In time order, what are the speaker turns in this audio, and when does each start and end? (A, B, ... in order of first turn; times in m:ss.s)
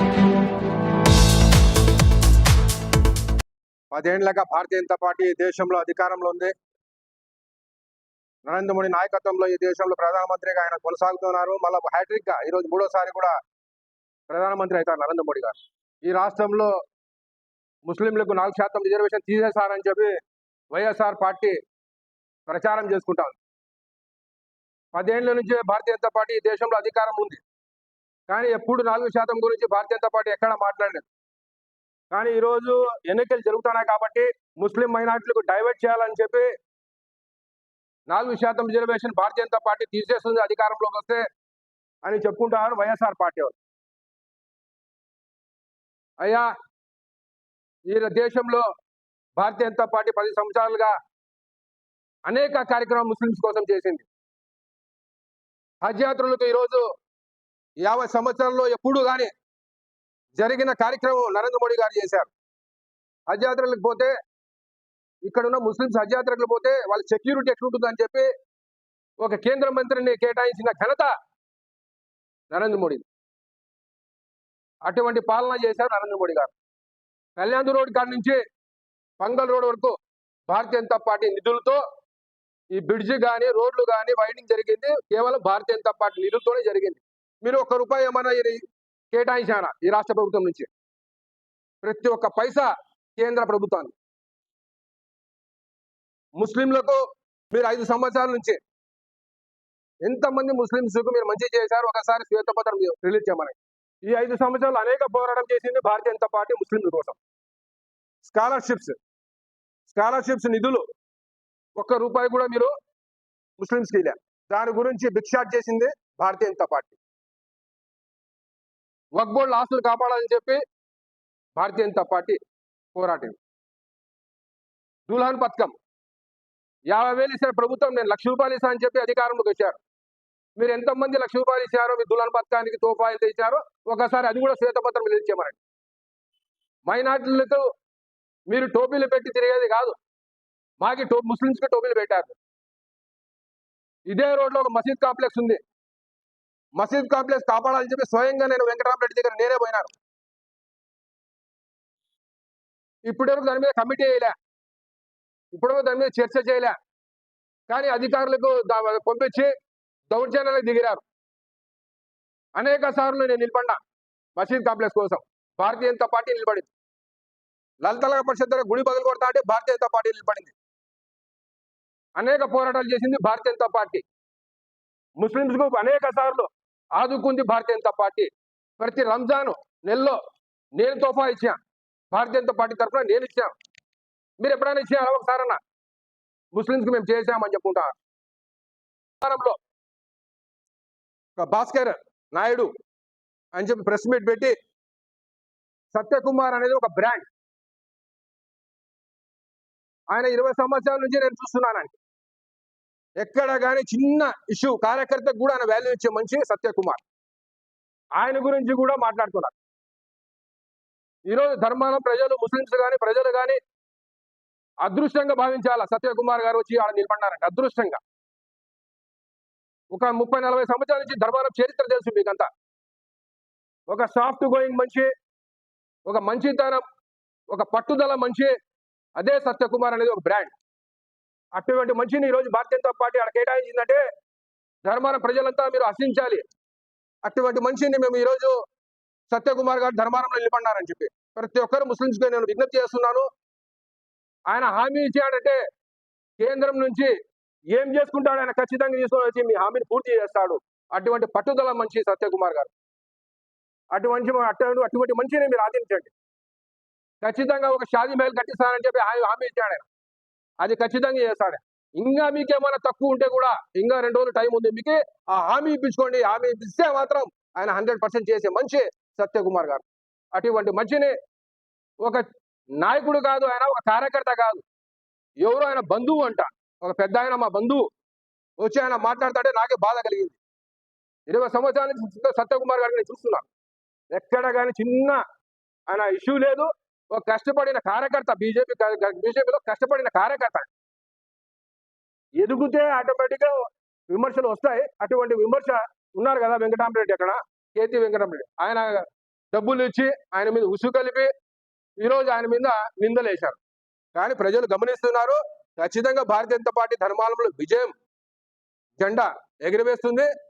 0:03.9-0:06.5 A
0:08.4-0:13.4 A
0:14.3-0:16.7 A
0:17.8-0:20.2 A
0:20.7-0:21.6 A
0:22.5-0:23.4 A
0:24.9-0:27.4 A
0:28.3-0:31.1 A
0:32.1-0:36.5 A
0:38.1-0:41.3 A
0:42.0-0:43.6 A
0:46.2-0:46.5 A
0:47.9-0:48.7 A
0:49.4-0:51.0 A
0:52.3-0:54.1 A
0:55.8-0:56.9 A
0:57.8-0:59.3 A
1:00.3-1:02.3 A
1:03.3-1:04.1 A
1:05.2-1:08.3 A
1:09.2-1:11.1 A
1:12.5-1:13.0 A
1:14.8-1:16.5 A
1:17.4-1:18.4 A
1:19.2-1:20.0 A
1:20.5-1:21.8 A
1:22.7-1:30.7 A
1:31.8-1:34.0 A
1:36.4-1:37.0 A
1:37.5-1:38.6 A
1:40.0-1:47.2 A
1:48.2-1:49.0 A
1:49.9-1:50.8 A
1:51.8-1:52.7 A
1:53.6-1:57.0 A
1:59.2-2:00.6 A
2:01.6-2:02.4 A
2:02.9-2:03.4 A
2:05.1-2:05.8 A
2:06.9-2:09.8 A
2:10.6-2:15.6 A
2:16.8-2:17.7 A
2:18.5-2:20.0 A
2:20.8-2:22.4 A
2:24.1-2:25.6 A
2:26.8-2:29.9 A
2:33.1-2:34.4 A
2:35.5-2:36.8 A
2:37.7-2:39.5 A
2:40.1-2:41.0 A
2:42.6-2:43.8 A
2:44.4-2:46.7 A
2:47.8-2:50.6 A
2:52.2-2:54.0 A
2:55.2-3:00.2 A
3:00.8-3:01.6 A
3:02.1-3:03.5 A
3:04.4-3:05.6 A
3:06.5-3:08.0 A
3:09.2-3:09.6 A
3:11.4-3:12.7 A
3:13.5-3:14.6 A
3:15.9-3:17.3 A
3:20.1-3:22.0 A
3:23.2-3:27.0 A
3:28.2-3:29.5 A
3:31.3-3:33.6 A
3:34.8-3:38.0 A
3:39.9-3:42.5 A
3:43.9-3:45.1 A
3:46.1-3:46.8 A
3:47.5-3:48.5 A
3:49.2-3:50.5 A
3:51.6-3:54.0 A
3:54.8-3:56.4 A
3:57.2-3:58.6 A
3:59.3-4:03.3 A
4:04.5-4:05.6 A
4:06.4-4:07.1 A
4:07.7-4:12.7 A
4:13.9-4:16.1 A
4:17.2-4:19.9 A
4:20.6-4:31.1 A
4:32.8-4:34.6 A
4:35.4-4:37.9 A
4:38.6-4:40.4 A
4:41.3-4:43.5 A
4:44.1-4:45.2 A
4:45.9-4:50.7 A
4:52.4-5:01.3 A
5:02.0-5:03.6 A
5:04.1-5:07.9 A
5:09.0-5:10.3 A